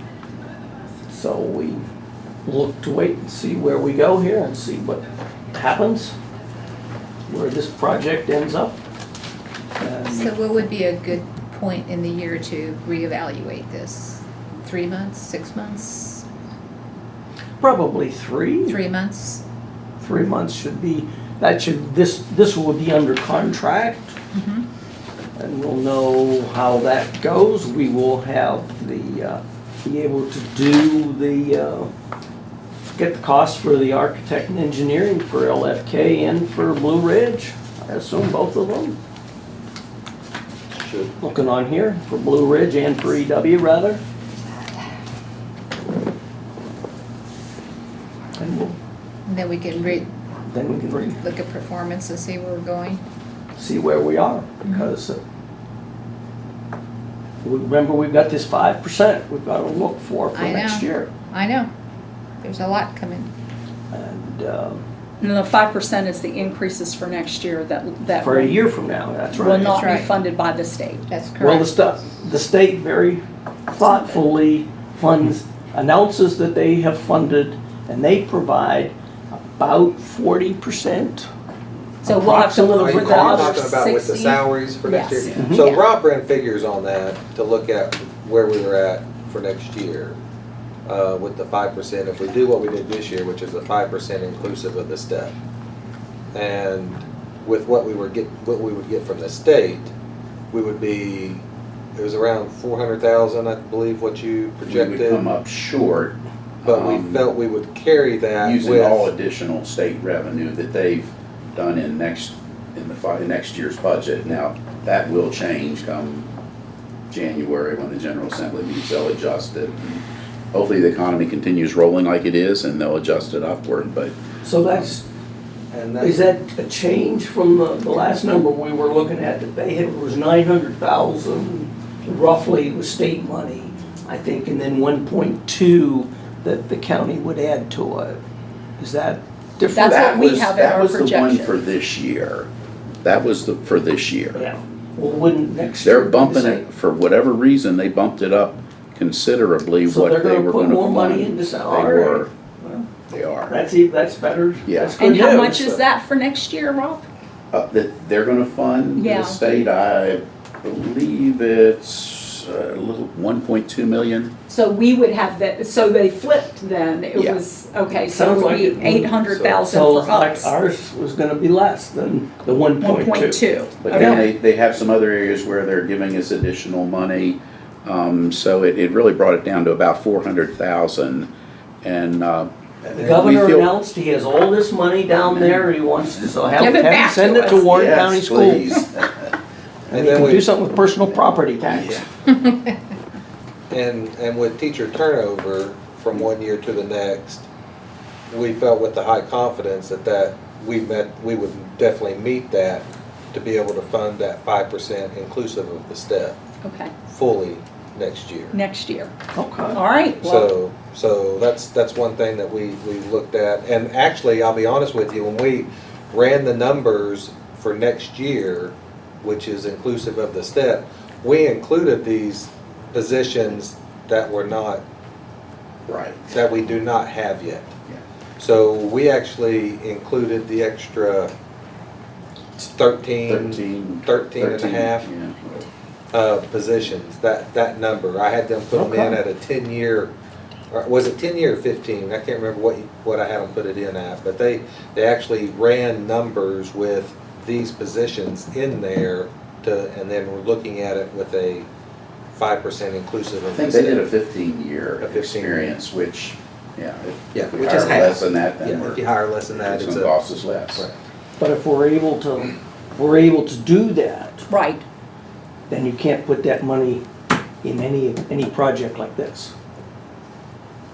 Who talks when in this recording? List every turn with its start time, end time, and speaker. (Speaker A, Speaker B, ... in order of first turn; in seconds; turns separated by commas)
Speaker A: 1.1-1.8, Speaker A: 2.4-6.2, Speaker A: 7.3-8.8, Speaker A: 9.8-10.3, Speaker B: 10.1-16.2, Speaker A: 17.6-18.8, Speaker B: 18.7-19.4, Speaker A: 20.0-24.1, Speaker B: 24.3-24.7, Speaker A: 25.4-31.9, Speaker A: 32.9-39.0, Speaker C: 40.7-41.1, Speaker A: 41.2-44.0, Speaker A: 48.4-48.8, Speaker B: 49.3-50.1, Speaker A: 50.5-51.2, Speaker B: 51.2-53.0, Speaker A: 53.5-55.2, Speaker B: 54.6-54.9, Speaker A: 57.4-61.1, Speaker B: 60.3-61.7, Speaker B: 62.4-63.3, Speaker A: 63.9-64.8, Speaker D: 65.2-68.6, Speaker A: 68.2-69.8, Speaker D: 69.3-71.0, Speaker B: 69.7-70.1, Speaker B: 71.1-71.8, Speaker A: 71.4-81.3, Speaker D: 82.0-85.4, Speaker A: 82.0-83.6, Speaker C: 82.8-90.2, Speaker A: 85.3-85.7, Speaker B: 85.5-85.8, Speaker C: 90.8-95.3, Speaker C: 96.3-99.9, Speaker C: 100.5-101.4, Speaker C: 101.9-105.2, Speaker E: 104.7-107.3, Speaker C: 106.6-109.1, Speaker E: 108.4-116.3, Speaker E: 117.1-124.1, Speaker A: 124.4-125.0, Speaker C: 125.7-126.2, Speaker A: 126.0-138.2, Speaker A: 138.8-139.9, Speaker D: 139.7-141.5, Speaker E: 139.7-142.5, Speaker E: 143.0-144.4, Speaker A: 144.3-146.6, Speaker E: 145.8-152.3, Speaker A: 149.8-152.9, Speaker E: 153.1-153.5, Speaker A: 153.5-155.8, Speaker E: 154.6-154.9, Speaker D: 155.0-157.0, Speaker E: 157.5-164.3, Speaker D: 158.9-159.4, Speaker D: 164.5-170.5, Speaker E: 167.1-167.4, Speaker A: 168.1-173.4, Speaker C: 169.3-169.6, Speaker D: 172.8-174.3, Speaker E: 173.8-181.3, Speaker A: 173.9-174.2, Speaker E: 181.8-183.8, Speaker A: 182.9-188.7, Speaker E: 185.2-186.8, Speaker D: 186.6-187.7, Speaker E: 187.6-189.3, Speaker C: 189.9-190.4, Speaker A: 189.9-192.0, Speaker E: 191.6-192.1, Speaker C: 193.7-197.4, Speaker C: 198.3-206.4, Speaker D: 206.6-206.9, Speaker C: 207.1-208.6, Speaker D: 208.5-209.1, Speaker A: 209.3-209.8, Speaker D: 209.7-210.5, Speaker C: 210.2-224.8, Speaker E: 225.9-226.3, Speaker C: 226.3-227.7, Speaker C: 228.4-231.3, Speaker C: 232.6-235.1, Speaker E: 233.2-235.7, Speaker C: 236.1-240.1, Speaker A: 238.7-239.2, Speaker C: 240.7-251.7, Speaker C: 252.3-254.1, Speaker E: 253.5-260.8, Speaker C: 255.0-255.7, Speaker C: 257.3-260.9, Speaker A: 261.4-264.5, Speaker D: 264.5-264.8, Speaker A: 265.7-267.0, Speaker A: 267.6-269.5